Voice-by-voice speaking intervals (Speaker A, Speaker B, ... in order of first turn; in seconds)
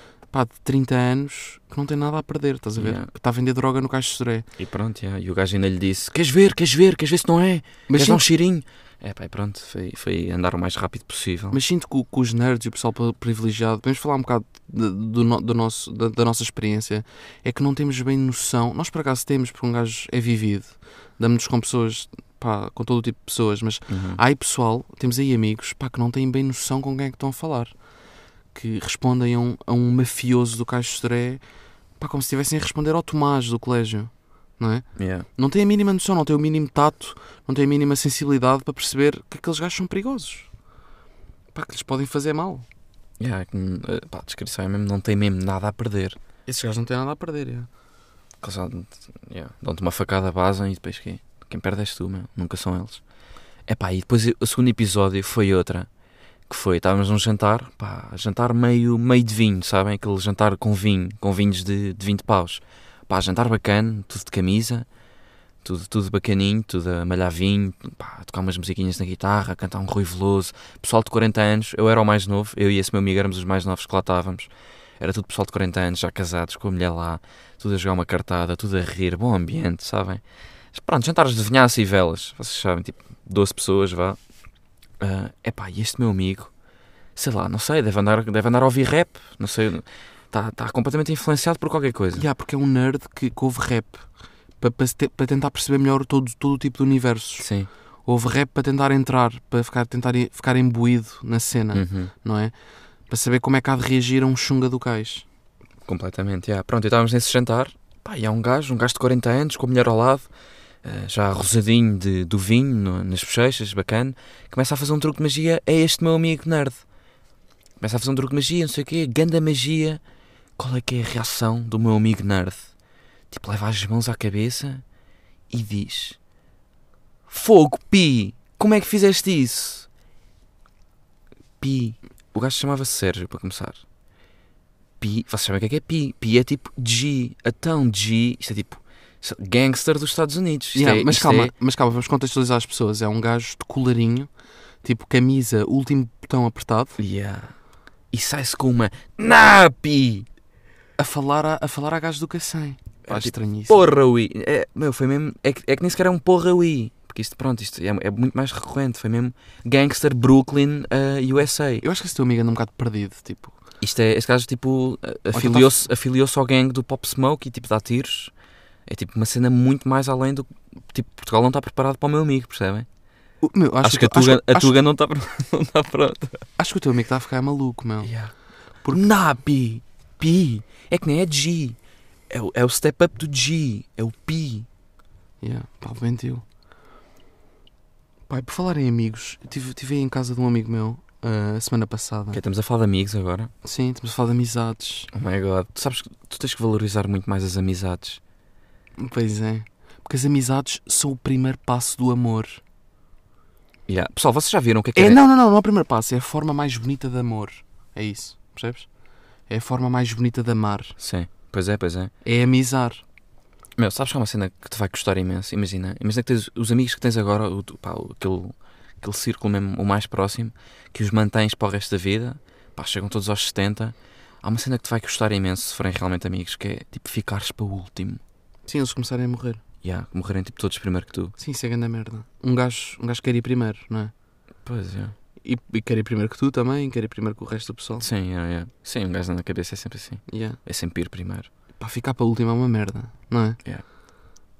Speaker A: 0.3-4.5, 7.9-8.2, 11.5-27.7, 28.5-31.4, 32.0-40.5, 41.5-42.6, 46.5-47.7, 92.1-94.1, 94.6-97.5, 98.0-102.5, 103.1-105.2, 140.7-144.3, 144.8-147.0, 151.0-153.8, 161.8-163.5, 165.3-165.7, 173.4-174.8, 176.6-178.1, 185.4-186.4, 188.3-192.4, 193.6-195.1, 199.0-202.6, 204.9-208.9, 209.5-211.0, 212.2-213.0, 228.7-229.6, 231.4-234.1, 235.4-238.0, 240.3-240.6, 241.8-243.6
Speaker B: 2.8-3.1, 4.6-11.6, 23.9-24.2, 35.0-35.3, 43.2-46.2, 48.4-53.0, 53.7-55.9, 56.5-64.9, 65.6-84.2, 85.0-86.5, 87.2-92.2, 97.4-97.7, 101.7-102.1, 105.8-110.3, 110.8-116.8, 117.8-120.0, 120.6-122.7, 123.3-124.8, 125.5-126.2, 127.3-129.9, 131.6-133.8, 135.0-141.5, 147.0-147.5, 148.1-150.2, 153.1-161.8, 163.8-168.3, 168.9-172.9, 173.8-176.4, 178.0-178.3, 178.8-181.8, 182.3-184.7, 192.3-193.5, 195.1-198.2, 203.9-205.2, 211.0-212.1, 213.8-228.2, 229.8-231.3, 234.7-235.1, 238.0-241.5